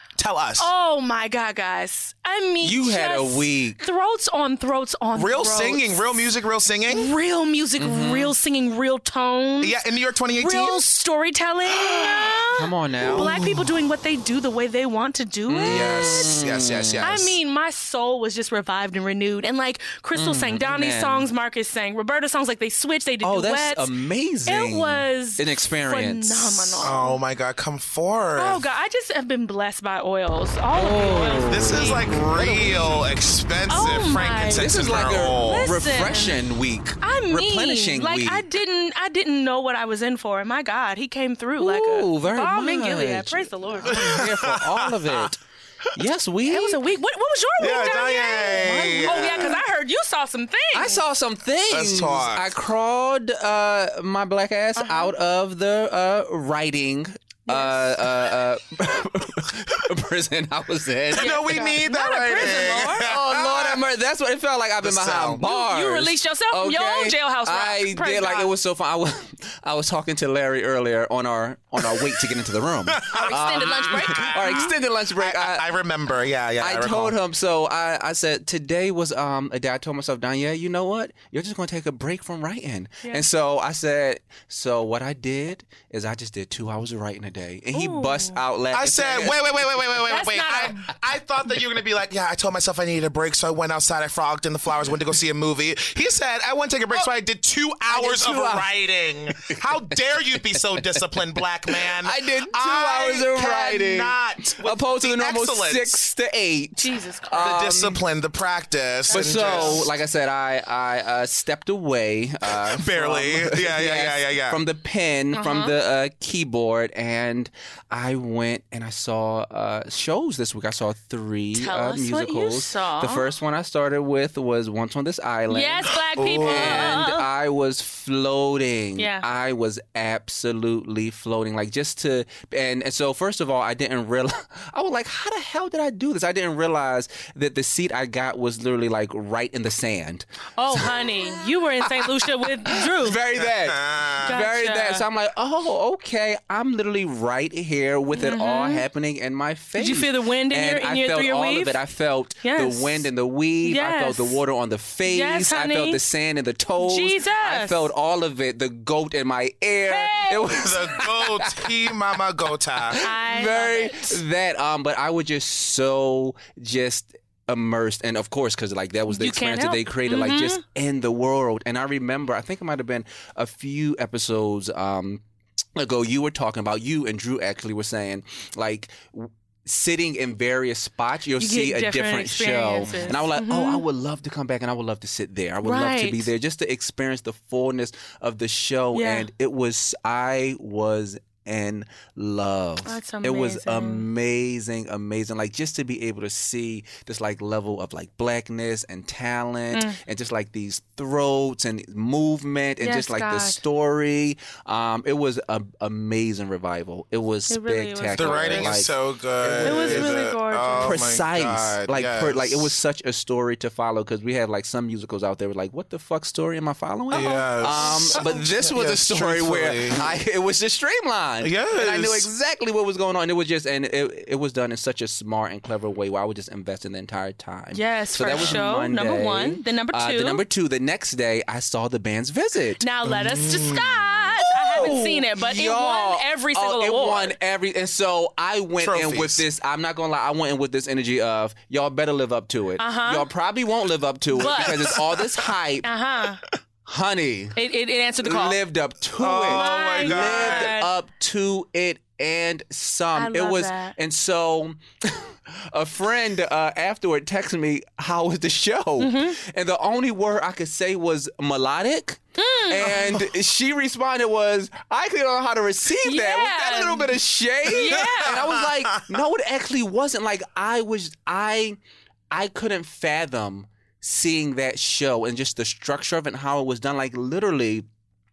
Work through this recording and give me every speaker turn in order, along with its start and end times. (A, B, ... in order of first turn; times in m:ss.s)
0:00.2-0:00.7 A
0:00.6-0:06.3 B
0:02.6-0:03.8 C
0:05.1-0:07.1 A
0:06.9-0:09.8 B
0:07.8-0:08.3 C
0:09.6-0:10.8 A
0:10.4-0:16.4 B
0:11.8-0:12.3 A
0:12.6-0:13.4 C
0:13.0-0:13.4 A
0:15.5-0:17.0 C
0:15.6-0:17.3 A
0:17.0-0:23.9 B
0:20.1-0:21.3 C
0:23.2-0:26.9 C
0:24.4-0:27.2 B
0:26.8-0:28.6 A
0:28.4-0:32.5 B
0:30.7-0:33.0 C
0:31.5-0:35.7 A
0:33.7-0:36.4 B
0:34.5-0:38.4 C
0:37.0-0:44.2 B
0:41.6-0:45.4 C
0:43.9-0:45.3 A
0:45.9-0:46.8 C
0:46.5-0:51.0 B
0:47.6-0:49.6 A
0:48.6-0:49.6 C
0:50.7-1:01.7 C
0:51.7-0:52.5 A
0:54.8-0:55.1 B
0:57.5-0:57.8 B
1:01.1-1:03.1 B
1:01.2-1:03.8 A
1:03.0-1:15.7 C
1:04.8-1:05.4 A
1:05.4-1:08.5 B
1:12.9-1:17.2 A
1:13.1-1:14.7 B
1:16.6-1:29.4 C
1:27.7-1:28.4 B
1:28.7-1:46.0 A
1:30.1-1:30.9 B
1:37.9-1:38.7 C
1:39.3-1:48.0 C
1:46.8-1:47.5 B
1:47.4-1:49.9 A
1:49.1-1:49.8 B
1:49.1-2:21.1 C
1:52.7-1:54.6 A
1:55.3-1:55.7 B
2:01.5-2:03.3 B
2:05.5-2:07.2 B
2:06.1-2:07.0 A
2:09.0-2:09.3 B
2:20.6-2:23.2 B
2:21.9-2:41.7 C
2:23.4-2:24.3 A
2:24.2-2:25.0 B
2:28.1-2:28.8 B
2:29.8-2:31.8 B
2:32.4-2:33.1 B
2:33.6-2:34.4 B
2:35.0-2:36.0 B
2:36.8-2:37.9 B
2:39.8-2:40.6 B
2:40.5-2:43.0 A
2:42.9-2:55.2 C
2:43.0-2:44.2 B
2:49.1-2:50.6 B
2:55.8-3:52.8 C
3:01.4-3:03.8 B
3:05.6-3:06.3 B
3:08.9-3:09.3 B
3:12.8-3:14.1 B
3:19.7-3:20.0 B
3:22.8-3:23.6 B
3:27.5-3:28.8 B
3:28.1-3:32.7 A
3:29.6-3:31.1 B
3:37.1-3:38.2 B
3:37.1-3:40.1 A
3:41.4-3:42.3 A
3:47.7-3:50.4 B
3:52.8-3:57.3 B
3:53.1-3:54.2 A
3:54.7-4:05.9 C
3:58.8-3:59.4 A
4:02.8-4:03.3 B
4:04.3-4:05.0 B
4:04.4-4:05.0 A
4:05.8-4:06.4 B
4:06.8-4:07.6 C
4:07.6-4:08.6 B
4:08.2-4:31.8 C
4:09.2-4:10.7 A
4:09.4-4:10.9 B
4:13.1-4:13.9 B
4:19.0-4:19.4 B
4:22.4-4:23.2 B
4:26.0-4:27.2 B
4:27.7-4:28.4 B
4:27.9-4:29.0 A
4:32.3-4:37.8 C